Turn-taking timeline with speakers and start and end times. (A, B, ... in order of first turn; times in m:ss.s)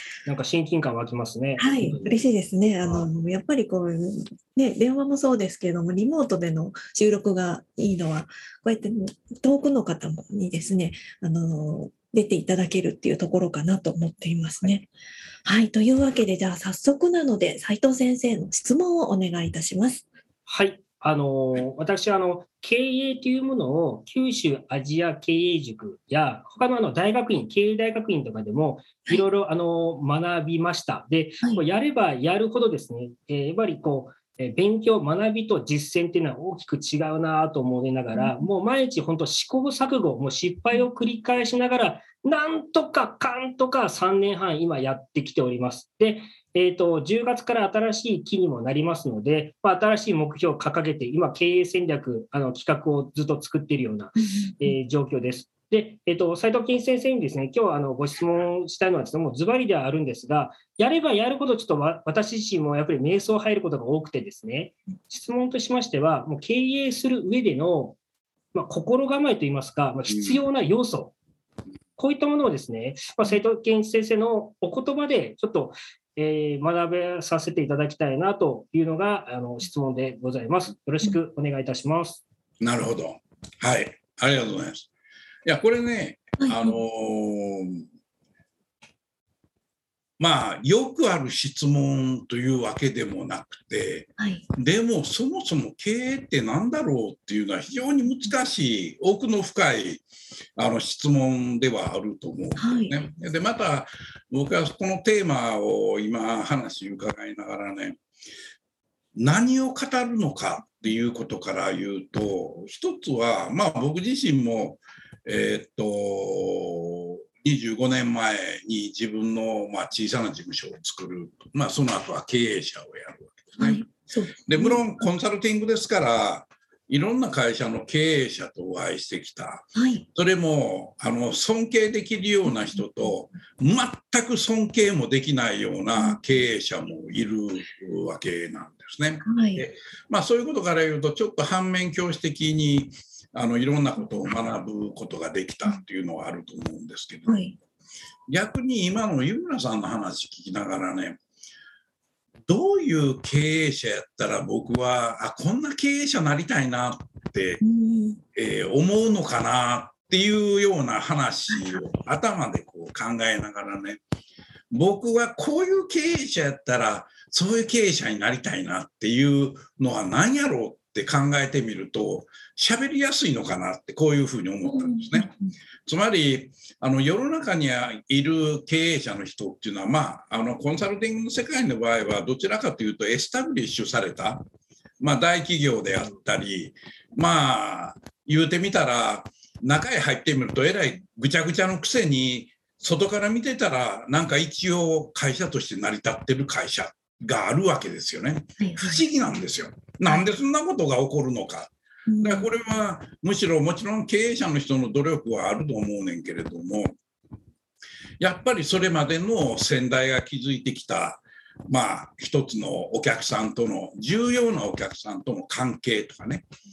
0:00.2-0:02.2 A
0:01.6-0:14.9 B
0:15.4-0:20.0 B
0:20.5-1:08.0 A
0:38.1-0:38.4 B
0:54.3-0:54.8 B
1:08.5-1:11.1 A
1:10.1-1:10.4 C
1:12.0-1:22.2 A
1:22.6-1:24.9 C
1:25.4-1:27.8 C
1:26.4-1:26.7 B
1:30.2-1:40.0 C
1:34.2-1:34.4 B
1:40.6-1:48.0 C
1:42.6-1:43.0 B
1:49.1-2:03.9 C
2:03.6-2:04.9 B
2:04.4-2:27.4 C
2:09.8-2:10.0 B
2:19.2-2:19.6 B
2:27.3-2:27.5 B
2:28.3-2:31.2 C
2:32.5-2:37.6 C
2:37.6-2:38.2 B
2:38.3-2:44.0 C
2:41.5-2:41.8 B
2:44.7-2:55.3 C
2:54.7-2:55.3 B
2:55.8-3:04.4 C
3:05.0-3:27.0 C
3:18.6-3:19.0 B
3:22.1-3:22.5 B
3:28.2-3:36.5 C